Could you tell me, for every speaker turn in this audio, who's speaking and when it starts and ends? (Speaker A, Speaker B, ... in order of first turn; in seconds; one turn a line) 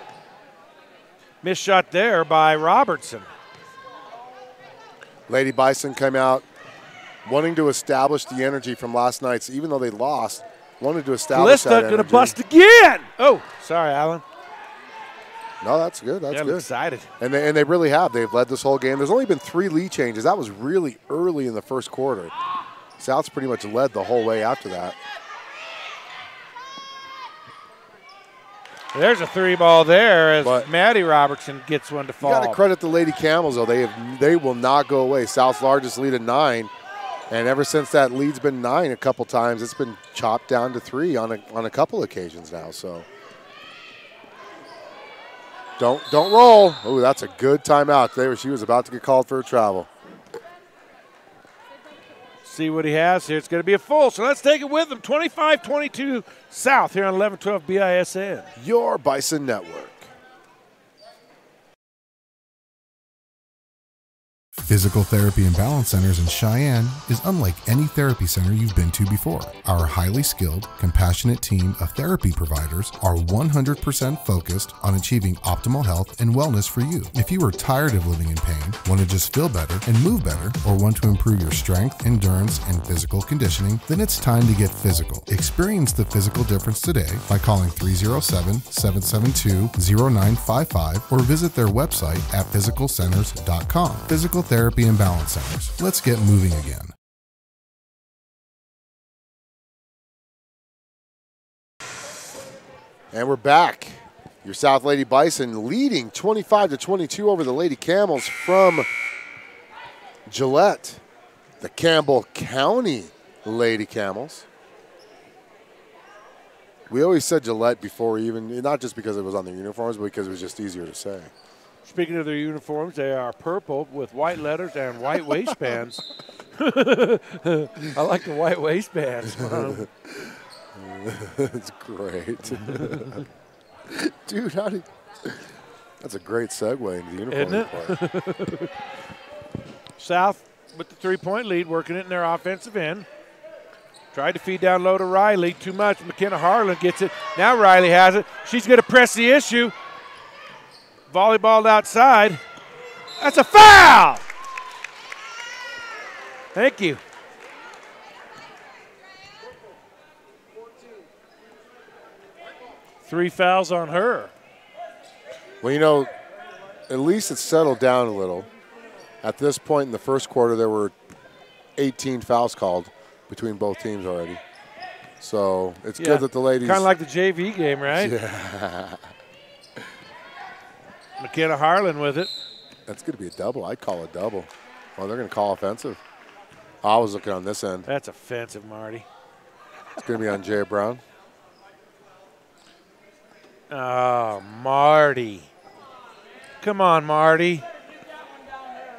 Speaker A: 1.4-3.3
Speaker B: 5.3-6.4
Speaker B: 7.2-12.4
Speaker A: 11.3-14.2
Speaker B: 15.6-16.7
Speaker A: 16.3-17.1
Speaker B: 17.2-22.3
Speaker B: 23.0-25.0
Speaker A: 28.9-32.6
Speaker B: 30.4-30.7
Speaker B: 32.2-36.7
Speaker B: 37.3-43.1
Speaker B: 45.8-49.9
Speaker A: 52.4-58.5
Speaker B: 58.6-60.1
Speaker C: 64.6-96.9
Speaker B: 103.1-108.9
Speaker B: 110.3-111.0
Speaker B: 111.6-114.5
Speaker B: 116.9-121.3
Speaker A: 121.8-126.0
Speaker A: 126.5-129.9
Speaker B: 129.2-133.2
Speaker A: 132.6-133.2
Speaker B: 133.9-135.5
Speaker B: 136.0-138.0
Speaker A: 137.3-138.7
Speaker A: 140.0-143.1
Speaker A: 144.1-149.7
Speaker A: 151.1-152.4
Speaker A: 153.2-154.2
Speaker A: 156.5-157.0
Speaker A: 163.1-164.3
Speaker B: 165.6-166.1
Speaker B: 166.9-168.5
Speaker B: 169.2-170.9
Speaker B: 171.8-174.4
Speaker B: 175.2-176.9
Speaker A: 176.0-178.1
Speaker B: 177.9-179.1
Speaker A: 181.2-182.3
Speaker B: 182.9-186.0
Speaker B: 186.8-187.9
Speaker A: 187.8-189.1
Speaker B: 190.0-191.0
Speaker A: 193.7-195.5
Speaker A: 196.6-197.6